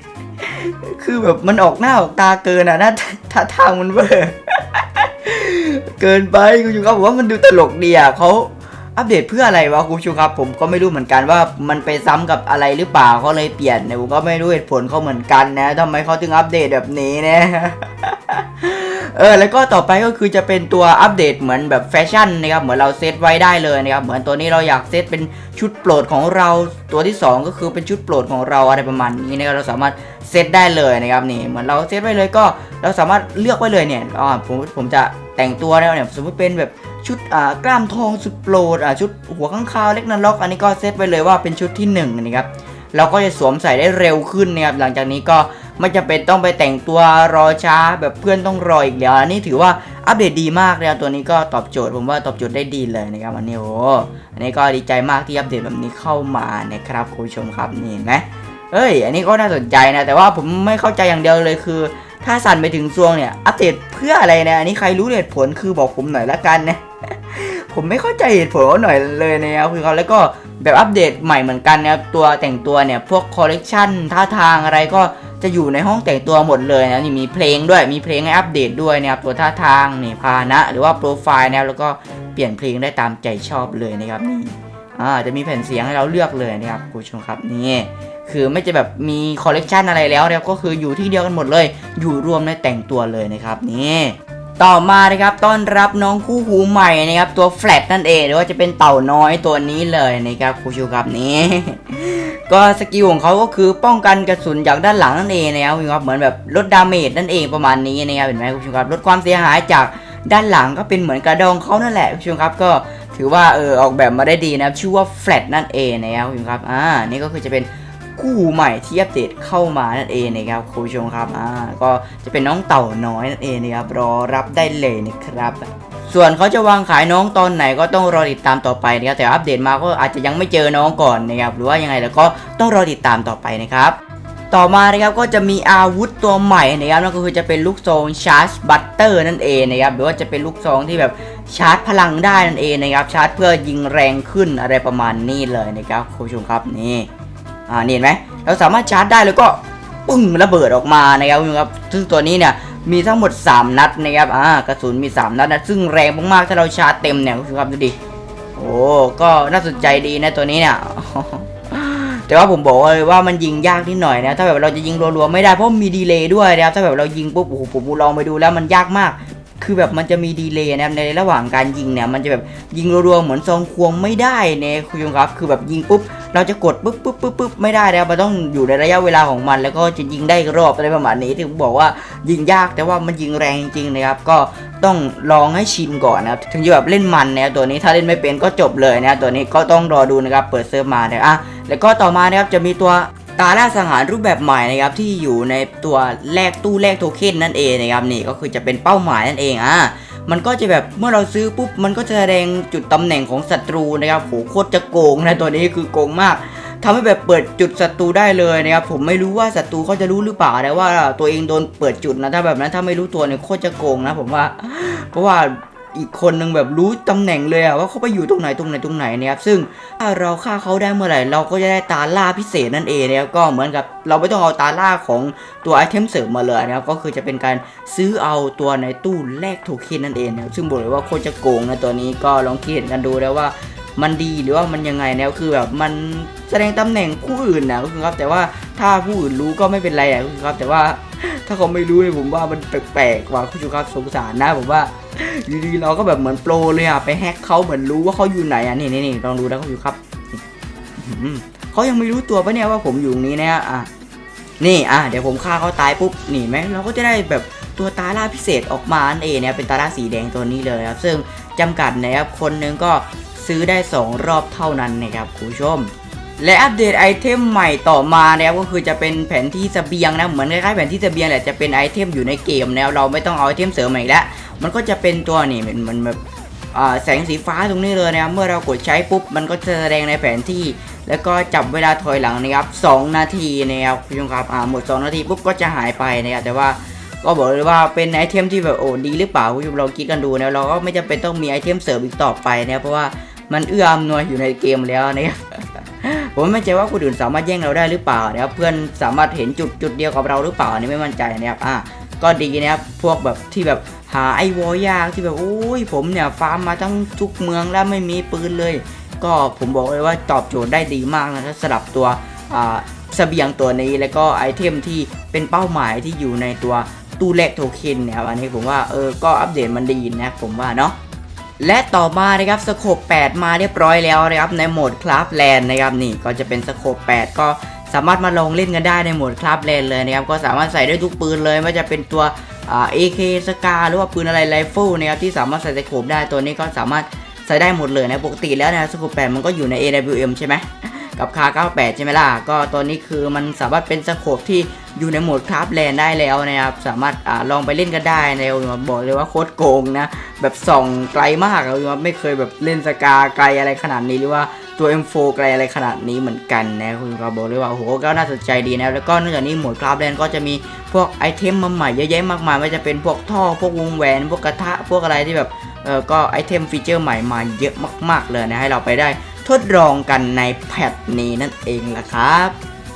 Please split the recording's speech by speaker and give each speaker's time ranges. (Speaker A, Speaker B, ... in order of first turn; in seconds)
Speaker A: 0.4-133.9, 134.5-147.1, 147.7-157.9, 158.6-250.4, 251.0-253.9, 254.6-276.2, 276.7-320.9, 321.6-372.6